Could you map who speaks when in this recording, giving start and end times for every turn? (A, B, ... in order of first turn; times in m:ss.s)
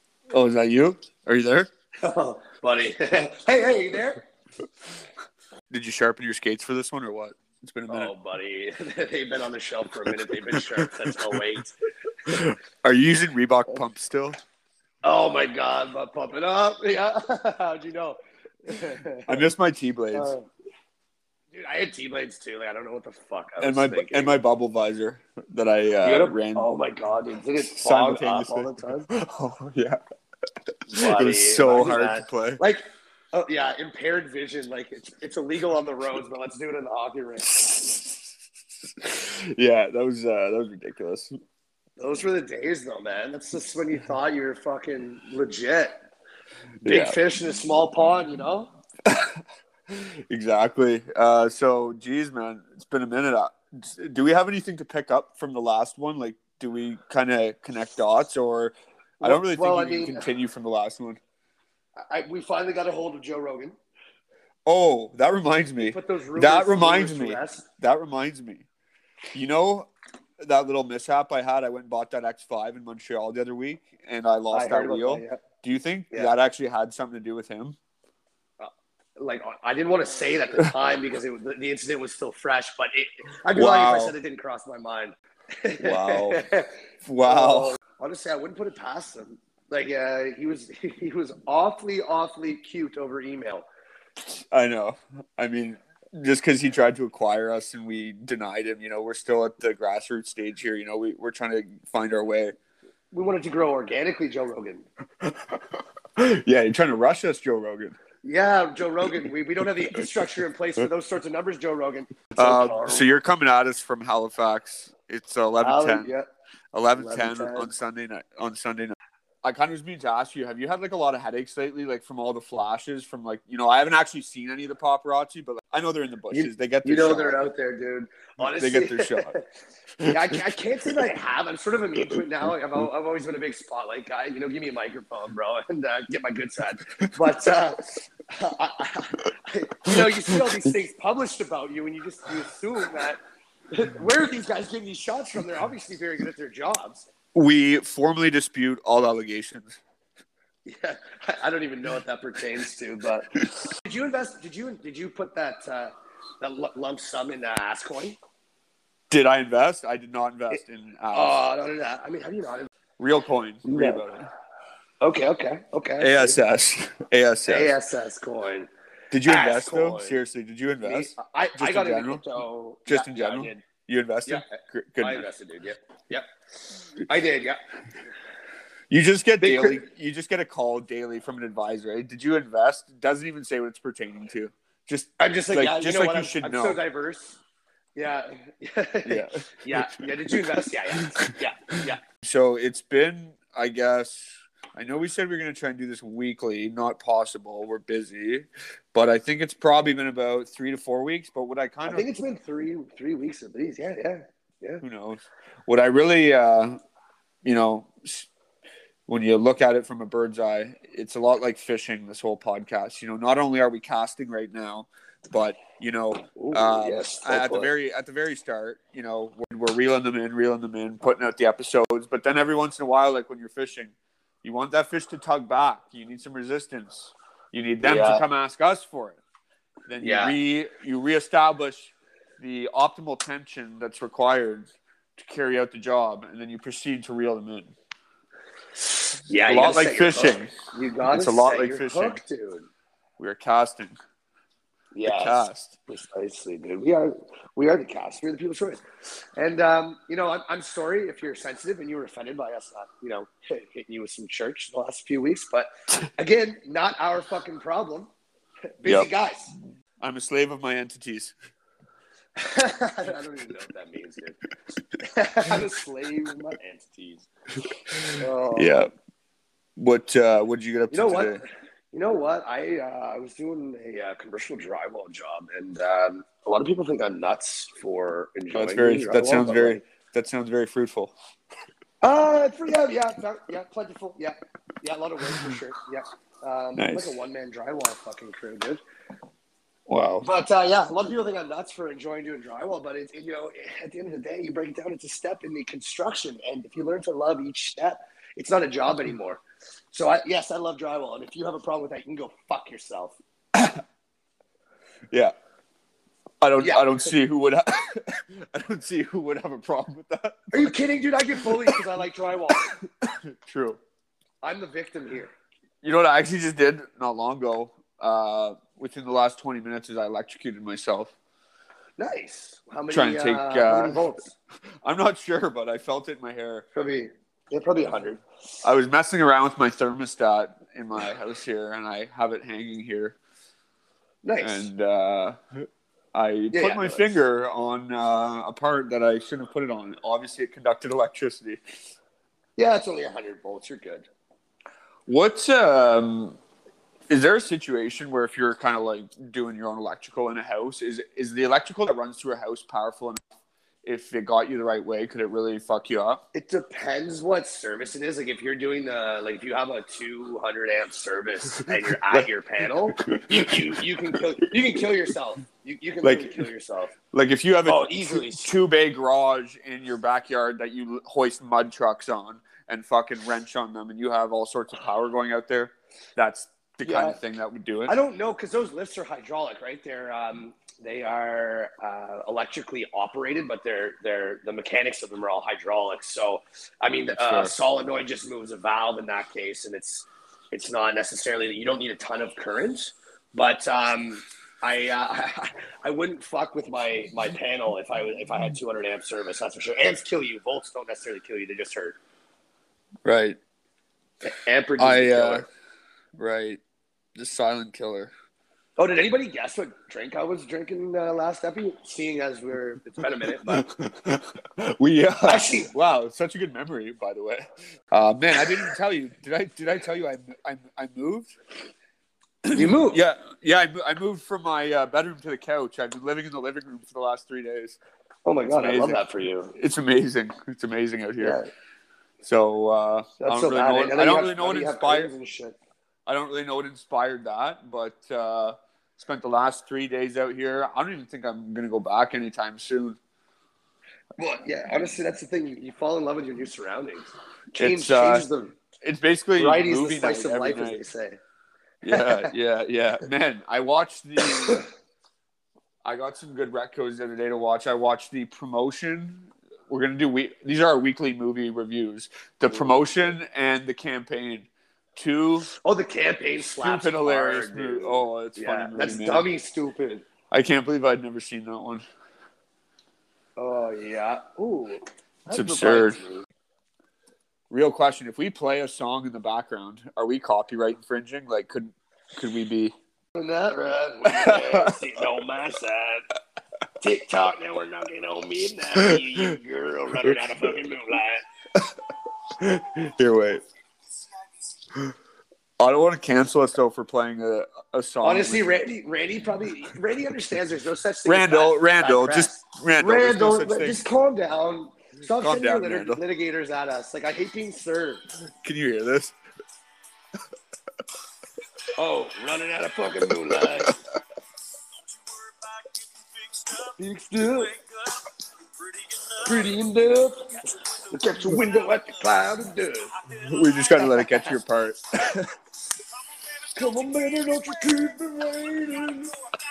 0:00.3-0:01.7 A
0:02.0-0:04.2 B
0:05.7-0:08.1 A
0:07.9-0:11.7 B
0:10.1-0:11.4 A
0:12.3-0:14.4 A
0:15.0-0:19.4 B
0:19.3-0:20.3 A
0:20.1-0:20.5 B
0:21.5-0:24.4 B
0:23.6-0:26.7 A
0:26.0-0:29.1 B
0:27.8-0:30.0 A
0:30.9-0:37.5 B
0:31.0-0:32.6 A
0:37.4-0:38.4 A
0:39.0-0:41.3 A
0:42.0-0:46.0 B
0:46.8-0:47.2 A
0:46.8-0:48.7 B
0:49.0-1:01.2 A
0:59.2-1:00.3 B
1:02.1-1:03.8 B
1:04.7-1:08.7 A
1:05.8-1:07.6 B
1:09.3-1:17.8 A
1:14.5-1:15.4 B
1:18.6-1:33.7 B
1:23.5-1:24.1 A
1:25.8-1:26.4 A
1:27.0-1:27.8 A
1:34.3-1:42.6 A
1:43.1-1:44.9 B
1:45.2-1:48.0 A
1:48.2-1:53.1 B
1:52.4-1:56.1 A
1:55.6-1:56.3 B
1:56.7-2:07.4 A
1:57.0-1:57.7 B
2:06.3-2:09.5 B
2:08.4-2:09.3 A
2:10.0-2:10.4 A
2:10.1-2:23.2 B
2:19.9-2:20.6 A
2:23.7-2:27.1 B
2:27.3-2:29.8 A
2:30.7-2:38.2 B
2:39.1-2:41.4 A
2:41.1-2:42.7 B
2:43.0-2:44.3 A
2:43.6-2:44.0 B
2:45.0-2:46.4 B
2:46.0-2:47.7 A
2:47.5-2:48.7 B
2:49.1-2:52.2 A
2:49.2-2:50.2 B
2:50.8-2:53.6 B
2:52.9-2:55.2 A
2:54.3-2:56.3 B
2:57.0-2:57.6 B
2:58.9-3:06.8 A
2:59.4-2:59.9 B
3:05.2-3:07.4 B
3:08.0-3:12.0 B
3:09.1-3:11.3 A
3:12.2-3:22.1 A
3:21.9-3:24.8 B
3:24.8-3:26.8 A
3:27.4-3:28.3 A
3:29.1-3:49.2 A
3:36.2-3:37.7 B
3:47.8-3:48.2 B
3:49.9-3:57.7 A
3:50.0-3:50.4 B
3:59.1-4:02.7 B
3:59.4-4:00.5 A
4:01.1-4:02.2 A
4:03.2-4:04.0 A
4:04.9-4:08.8 B
4:05.0-4:05.8 A
4:09.4-4:18.1 B
4:18.8-4:19.6 B
4:18.8-4:19.1 A
4:20.0-4:21.3 A
4:22.4-4:24.4 B
4:25.0-4:27.3 B
4:27.9-4:28.9 A
4:28.2-4:28.9 B
4:29.8-4:31.4 A
4:30.9-4:39.8 B
4:38.5-4:41.1 A
4:42.0-4:48.8 B
4:46.8-4:47.2 A
4:49.9-4:50.3 A
4:50.2-5:03.2 B
5:03.5-5:03.8 A
5:06.4-5:10.7 A
5:06.6-5:07.0 B
5:10.5-5:12.7 B
5:12.8-5:13.8 A
5:14.4-5:15.3 B
5:15.8-5:21.1 A
5:22.0-5:24.4 B
5:22.9-5:24.0 A
5:24.8-5:26.7 A
5:26.7-5:28.2 B
5:28.6-5:33.2 A
5:34.2-5:34.7 B
5:34.4-5:41.6 A
5:36.5-5:37.0 B
5:42.6-5:44.1 B
5:45.1-5:46.4 A
5:47.1-5:53.2 A
5:53.8-5:56.2 A
5:56.3-6:06.9 B
6:01.7-6:02.3 A
6:02.9-6:04.2 A
6:06.0-6:06.4 A
6:07.1-6:18.0 A
6:07.7-6:08.5 B
6:16.8-6:17.2 B
6:17.9-6:42.0 B
6:27.2-6:27.5 A
6:43.0-6:43.4 A
6:44.2-6:45.5 B
6:44.8-6:45.5 A
6:46.2-6:46.6 A
6:47.2-6:48.1 A
6:48.8-6:53.7 B
6:53.5-7:01.4 A
6:55.3-6:55.7 B
7:02.4-7:07.8 A
7:02.5-7:03.0 B
7:08.2-7:09.6 B
7:08.5-7:09.0 A
7:09.6-7:11.4 A
7:11.2-7:11.5 B
7:12.2-7:15.1 A
7:13.2-7:15.6 B
7:16.1-7:23.0 A
7:24.2-7:28.6 B
7:27.5-7:28.3 A
7:28.8-7:30.8 A
7:29.4-7:31.2 B
7:31.8-7:34.7 A
7:31.9-7:32.3 B
7:34.2-7:34.6 B
7:35.8-7:45.5 A
7:42.5-7:43.1 B
7:45.6-7:50.0 B
7:46.6-7:49.3 A
7:50.3-7:51.8 A
7:53.4-7:56.3 B
7:55.3-7:56.0 A
7:57.5-8:02.7 A
8:03.2-8:06.1 B
8:04.0-8:04.8 A
8:06.8-8:11.2 B
8:12.4-8:13.4 A
8:15.6-8:18.5 A
8:18.0-8:28.0 B
8:21.1-8:23.8 A
8:25.2-8:26.0 A
8:28.3-8:29.1 A
8:31.8-8:33.8 B
8:33.3-8:33.7 A
8:36.6-8:37.6 B
8:39.1-8:43.0 B
8:43.1-8:45.3 A
8:43.8-8:44.3 B
8:46.5-8:49.2 B